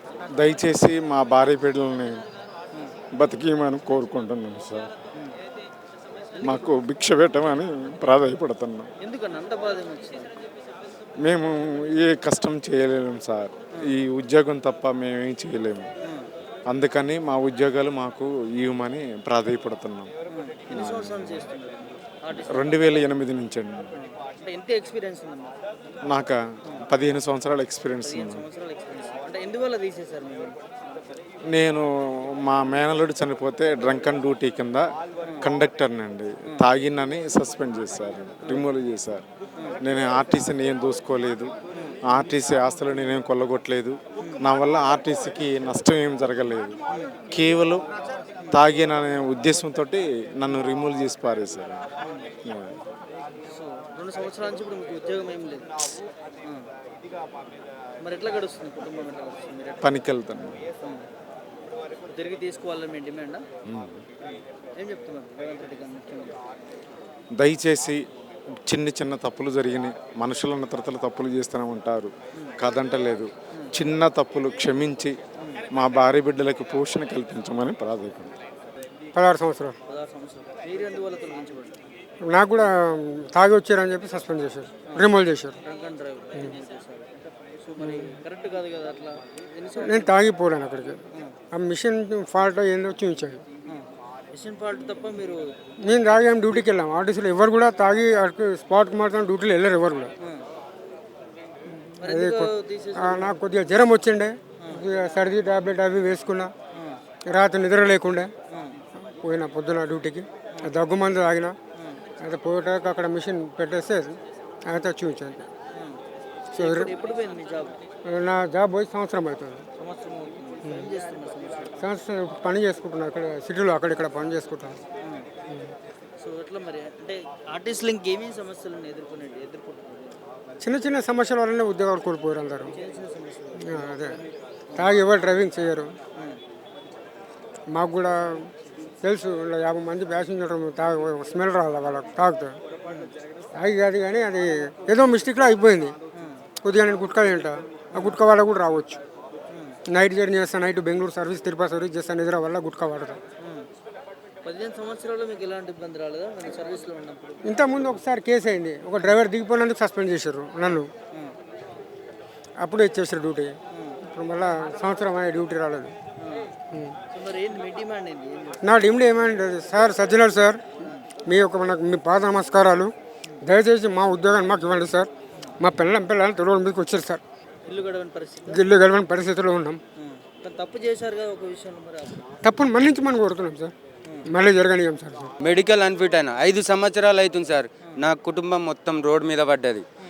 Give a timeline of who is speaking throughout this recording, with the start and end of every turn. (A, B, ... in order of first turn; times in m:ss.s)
0:00.4-0:02.3 A
0:03.1-0:04.9 A
0:06.4-0:06.8 B
0:06.4-0:08.9 A
0:09.0-0:10.4 B
0:11.2-0:15.9 A
0:16.7-0:20.1 A
0:20.3-0:23.1 B
0:20.7-0:21.5 A
0:22.5-0:23.9 A
0:24.0-0:25.6 B
0:26.0-0:28.5 A
0:28.0-0:30.6 B
0:31.5-0:31.8 A
0:32.4-0:34.9 A
0:35.4-0:39.2 A
0:39.8-0:41.5 A
0:42.1-0:46.8 A
0:47.3-0:47.9 A
0:48.5-0:51.9 A
0:52.0-0:52.3 B
0:52.4-0:52.8 A
0:53.5-0:55.7 B
0:56.4-0:56.7 B
0:58.0-0:59.8 B
0:59.8-1:00.7 A
1:02.1-1:03.4 B
1:03.7-1:04.0 A
1:04.2-1:06.4 B
1:07.4-1:08.0 A
1:08.7-1:15.2 A
1:15.7-1:18.4 A
1:19.1-1:19.8 C
1:19.9-1:21.8 B
1:22.2-1:25.6 C
1:25.6-1:27.1 B
1:27.6-1:30.1 B
1:27.8-1:28.2 C
1:29.8-1:33.4 C
1:31.1-1:31.4 B
1:33.7-1:35.6 B
1:35.8-1:40.1 C
1:42.0-1:43.4 B
1:42.0-1:46.5 C
1:44.6-1:44.9 B
1:47.3-1:48.3 C
1:48.5-1:48.8 B
1:49.0-1:51.6 C
1:51.8-1:52.0 B
1:52.2-1:55.4 C
1:55.7-1:56.0 B
1:56.5-1:57.8 B
1:56.6-1:56.9 C
1:58.0-1:59.6 C
1:59.8-2:01.8 B
2:01.8-2:04.8 C
2:05.0-2:05.3 B
2:05.5-2:05.7 C
2:06.2-2:10.2 B
2:10.6-2:12.8 C
2:12.7-2:15.0 B
2:13.6-2:14.2 C
2:14.8-2:16.0 C
2:17.7-2:22.6 C
2:22.9-2:23.1 B
2:23.5-2:26.0 C
2:26.1-2:26.4 B
2:26.6-2:29.0 C
2:27.9-2:28.2 B
2:29.5-2:29.8 B
2:29.9-2:33.2 C
2:33.4-2:33.7 B
2:34.4-2:37.5 B
2:37.4-2:40.9 C
2:42.6-2:46.0 C
2:43.7-2:44.0 B
2:46.2-2:46.5 B
2:46.7-2:47.0 C
2:47.1-2:48.6 B
2:48.6-2:50.6 C
2:51.3-2:57.2 C
2:57.7-2:58.6 B
2:58.5-2:59.8 C
3:00.0-3:02.4 B
3:02.4-3:03.7 C
3:04.3-3:05.3 C
3:05.4-3:09.8 D